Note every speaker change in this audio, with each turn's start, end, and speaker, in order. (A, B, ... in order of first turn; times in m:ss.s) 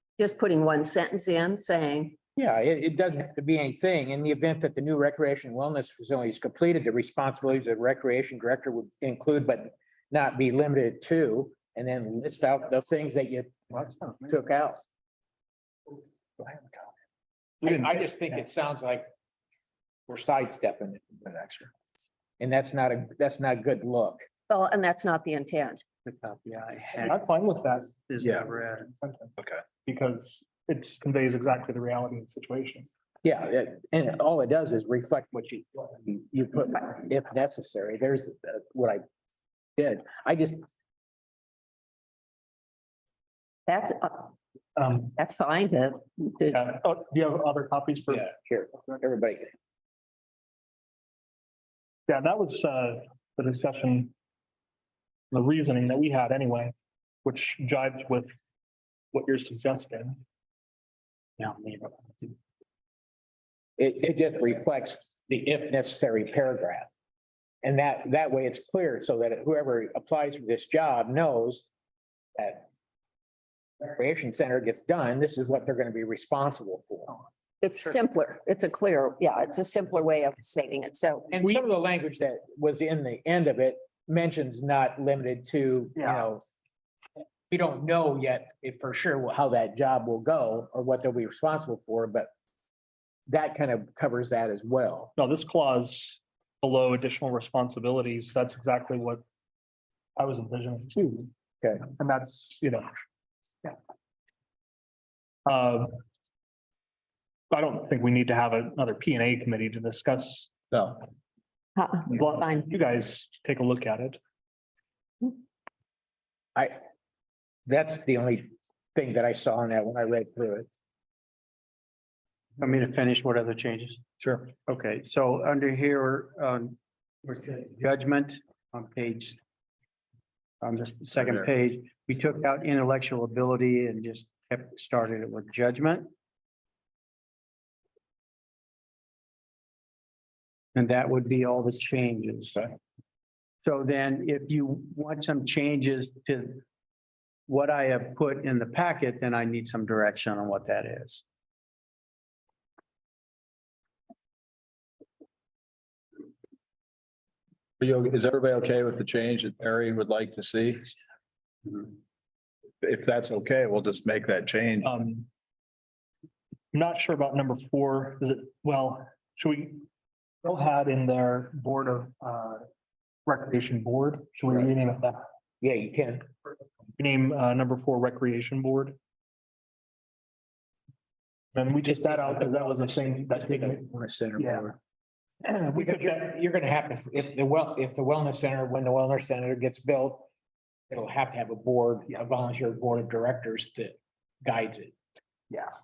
0:00.2-0:02.2 A
0:02.4-0:14.8 B
0:17.6-0:19.1 B
0:20.1-0:21.6 B
0:21.3-0:21.6 C
0:22.4-0:24.2 B
0:24.5-0:25.8 A
0:26.0-0:27.2 D
0:27.0-0:28.1 E
0:28.1-0:28.9 D
0:28.8-0:29.3 E
0:29.8-0:32.9 E
0:33.2-0:39.0 B
0:39.8-0:40.7 B
0:43.7-0:44.3 A
0:44.8-0:45.1 E
0:44.9-0:46.6 A
0:46.5-0:48.3 E
0:48.1-0:49.5 B
0:52.1-0:54.1 E
0:55.3-0:56.7 E
0:57.2-0:58.3 E
0:59.1-1:00.2 E
1:01.4-1:02.4 D
1:03.8-1:06.9 B
1:07.6-1:11.7 B
1:12.4-1:12.7 B
1:13.9-1:17.2 B
1:17.6-1:21.3 A
1:21.3-1:26.4 B
1:26.0-1:26.2 E
1:27.5-1:32.3 B
1:33.3-1:35.1 B
1:35.2-1:39.2 E
1:40.2-1:42.8 E
1:45.4-1:45.9 E
1:47.5-1:50.5 E
1:51.8-1:52.6 A
1:52.1-1:54.2 E
1:57.7-2:00.7 B
2:02.6-2:09.4 D
2:10.6-2:16.1 D
2:11.2-2:11.5 C
2:20.7-2:22.7 D
2:23.6-2:26.6 D
2:27.5-2:31.2 D
2:37.8-2:40.9 C
2:42.8-2:44.9 C
2:44.8-2:45.3 E
2:46.7-2:49.8 E
2:50.4-2:52.6 E
2:53.2-2:55.2 E
2:55.6-2:56.3 B
2:57.0-2:59.0 E
3:01.5-3:03.8 E
3:01.9-3:04.8 B
3:04.4-3:04.6 E
3:05.4-3:06.2 E
3:05.8-3:10.3 B
3:10.9-3:14.9 B